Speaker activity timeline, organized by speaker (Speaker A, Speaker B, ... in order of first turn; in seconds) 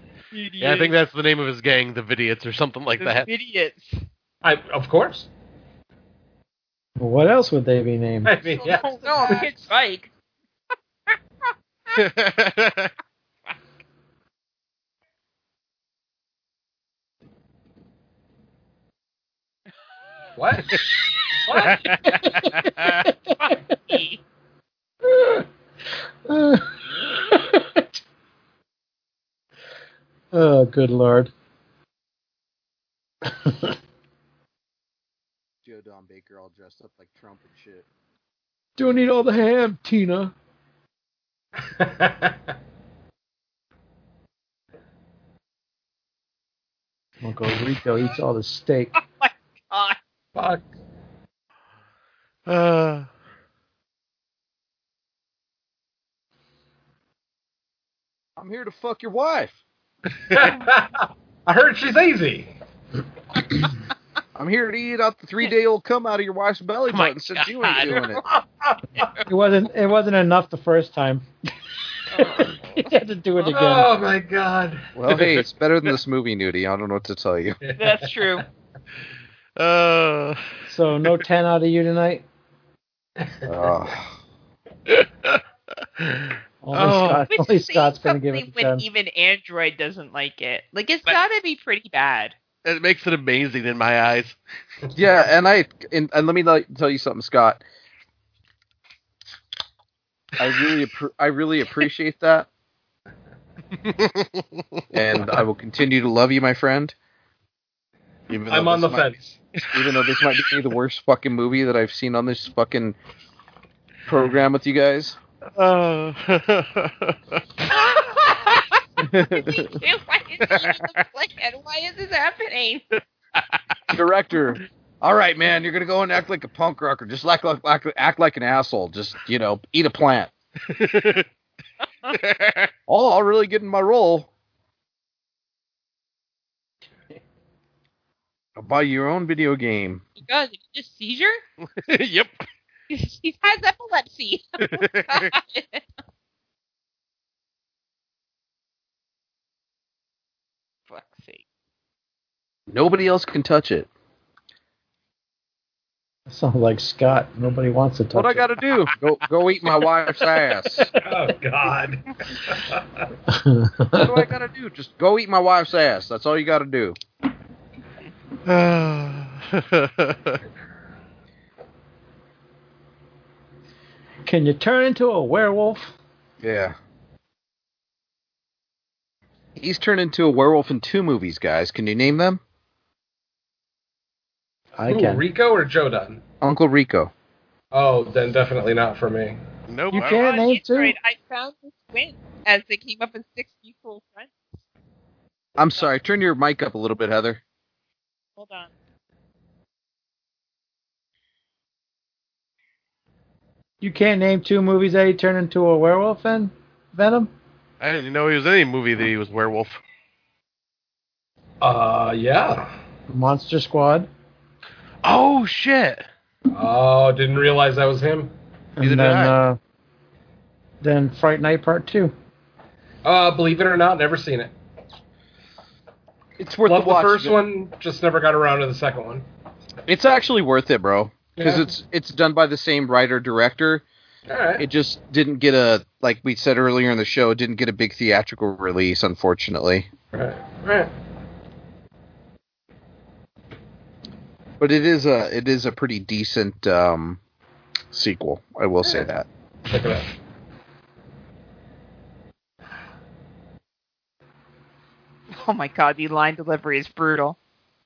Speaker A: 0.3-0.9, 3.0-4.0, 8.5-10.1, 23.4-24.2, 49.0-50.0, 67.9-68.2, 69.0-69.2, 72.1-73.6, 77.8-78.5, 87.3-92.3, 117.7-122.9, 140.2-141.4, 142.9-145.8, 150.9-151.4, 189.9-194.5, 198.4-198.7, 255.3-257.4
Speaker B: 0.6-3.3, 11.9-12.9, 21.5-23.1, 52.5-53.1, 66.9-68.0, 79.6-80.5, 84.9-85.4, 86.0-87.2, 92.6-94.4, 103.8-104.6, 109.7-110.5, 115.6-117.2, 130.7-131.3, 132.1-132.7, 141.8-142.5, 144.6-145.3, 168.5-170.4, 189.7-190.2, 207.8-209.8, 215.0-216.1, 218.8-219.4
Speaker C: 4.4-5.3, 8.2-9.5, 20.4-21.9, 41.8-42.3, 50.4-50.7, 60.3-62.6, 73.5-74.9, 77.6-78.4, 83.2-83.5, 108.5-109.4, 161.0-163.0, 184.9-186.2, 187.7-189.4, 211.6-212.8, 216.5-218.3, 223.1-224.5, 226.7-229.3, 231.4-231.7, 234.3-234.7, 240.1-240.9, 249.7-250.1
Speaker D: 7.0-8.4, 22.1-23.2, 25.1-25.4, 26.3-27.9, 30.3-31.3, 33.3-33.7, 38.8-40.3, 47.2-49.0, 69.2-71.2, 72.3-73.9, 80.7-82.2, 86.6-88.8, 156.3-158.5, 163.3-164.3, 174.3-175.9, 184.8-185.2, 189.9-190.9, 203.8-207.3, 213.1-214.1, 218.8-219.6, 220.8-222.1
Speaker E: 35.6-37.9, 58.4-59.6, 64.3-68.2, 75.0-77.6, 83.5-84.1, 95.0-97.6, 100.4-102.5, 104.9-107.0, 108.3-109.1, 109.7-113.0, 114.1-115.2, 119.0-119.8, 123.9-130.3, 132.9-134.3, 138.6-140.0, 152.7-153.9, 158.1-160.9, 163.9-167.0, 176.4-176.8, 179.6-182.4, 186.4-187.1, 195.6-197.4, 226.4-227.4, 229.9-233.8, 234.6-239.9, 244.6-247.2, 247.9-249.3